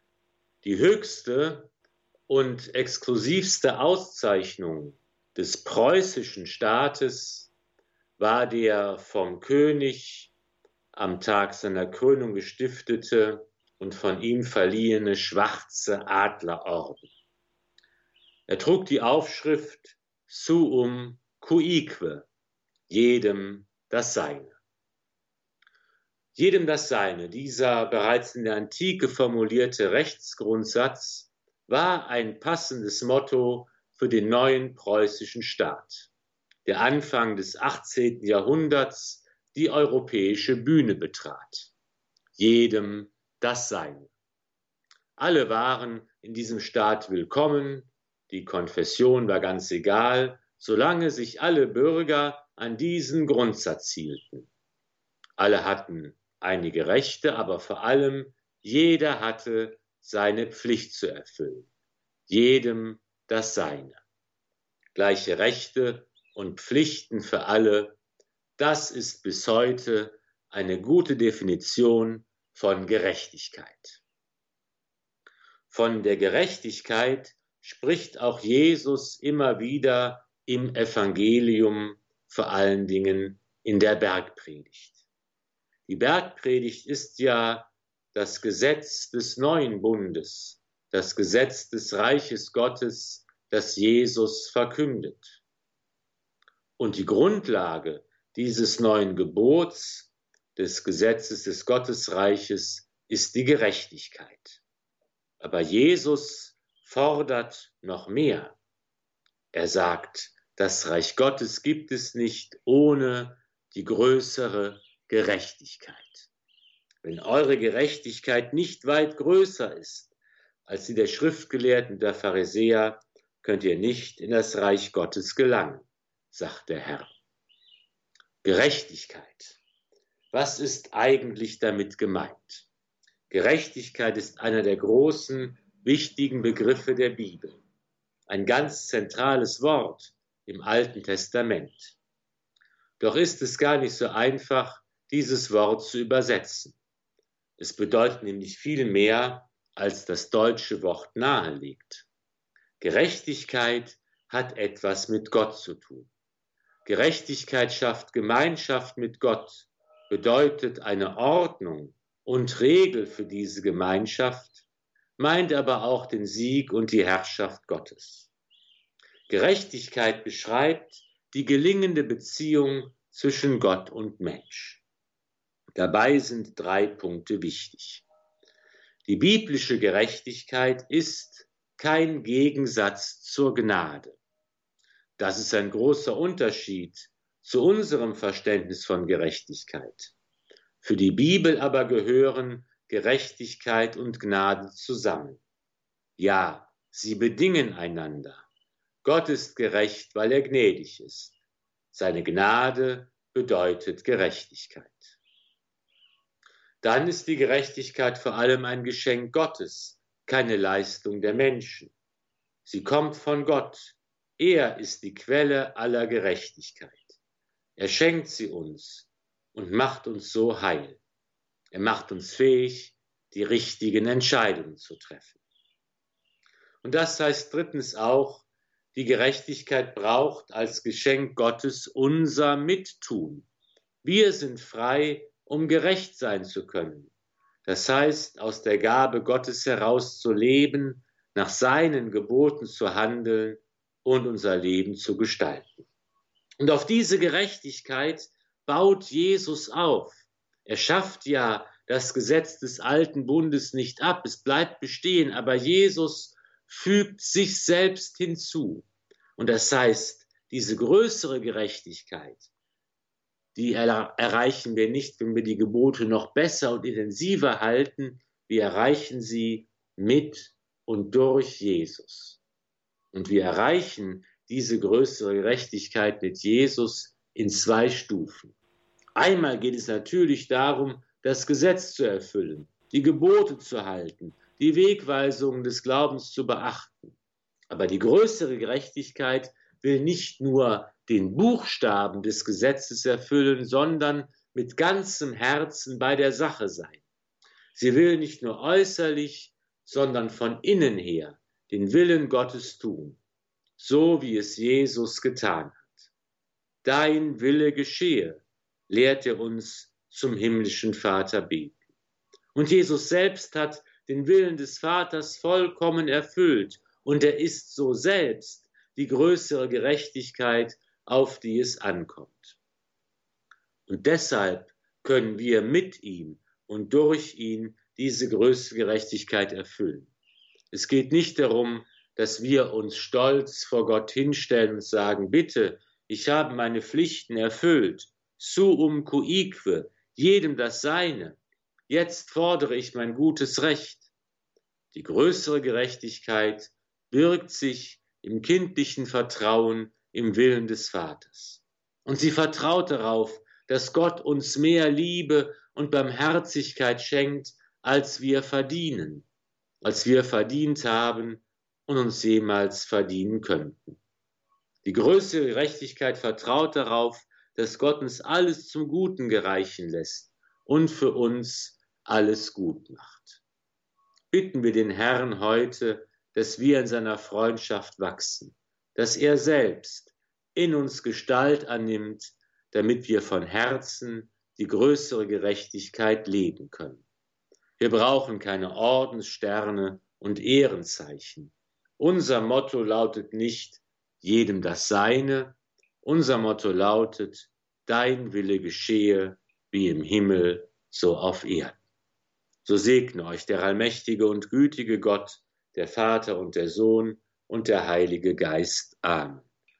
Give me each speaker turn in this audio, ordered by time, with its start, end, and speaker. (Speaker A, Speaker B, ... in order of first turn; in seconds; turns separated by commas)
Speaker A: 0.6-1.7, Speaker A: 2.3-7.5, Speaker A: 8.2-10.3, Speaker A: 10.9-17.1, Speaker A: 18.5-22.3, Speaker A: 22.9-24.6, Speaker A: 26.4-36.1, Speaker A: 36.6-41.7, Speaker A: 42.4-44.1, Speaker A: 45.2-54.5, Speaker A: 55.4-61.7, Speaker A: 62.3-64.0, Speaker A: 64.9-68.0, Speaker A: 68.6-74.0, Speaker A: 75.7-85.0, Speaker A: 85.9-95.4, Speaker A: 96.8-104.6, Speaker A: 105.4-108.6, Speaker A: 109.5-116.3, Speaker A: 117.0-120.1, Speaker A: 120.7-127.1, Speaker A: 128.4-129.6, Speaker A: 130.3-132.7, Speaker A: 133.3-137.6, Speaker A: 138.3-142.0, Speaker A: 143.0-146.8, Speaker A: 147.6-152.1, Speaker A: 152.8-156.1, Speaker A: 156.8-164.7, Speaker A: 165.2-168.3, Speaker A: 169.3-174.8, Speaker A: 175.8-178.0, Speaker A: 179.1-184.2, Speaker A: 185.2-190.2, Speaker A: 190.8-195.4, Speaker A: 196.2-198.5, Speaker A: 199.0-201.4, Speaker A: 201.9-205.2, Speaker A: 206.8-211.9, Speaker A: 212.7-217.2, Speaker A: 217.8-221.0, Speaker A: 221.7-225.4, Speaker A: 226.8-233.5, Speaker A: 234.0-237.1, Speaker A: 237.7-245.9, Speaker A: 246.6-258.9, Speaker A: 259.4-262.5, Speaker A: 263.6-272.4, Speaker A: 273.1-278.6, Speaker A: 279.2-287.1, Speaker A: 287.7-297.0, Speaker A: 297.7-303.2, Speaker A: 303.8-306.1, Speaker A: 306.8-311.8, Speaker A: 312.5-322.6, Speaker A: 323.9-330.1, Speaker A: 330.7-344.1, Speaker A: 344.9-359.2, Speaker A: 359.8-364.0, Speaker A: 364.8-373.4, Speaker A: 374.3-387.1, Speaker A: 387.8-401.8, Speaker A: 402.6-409.5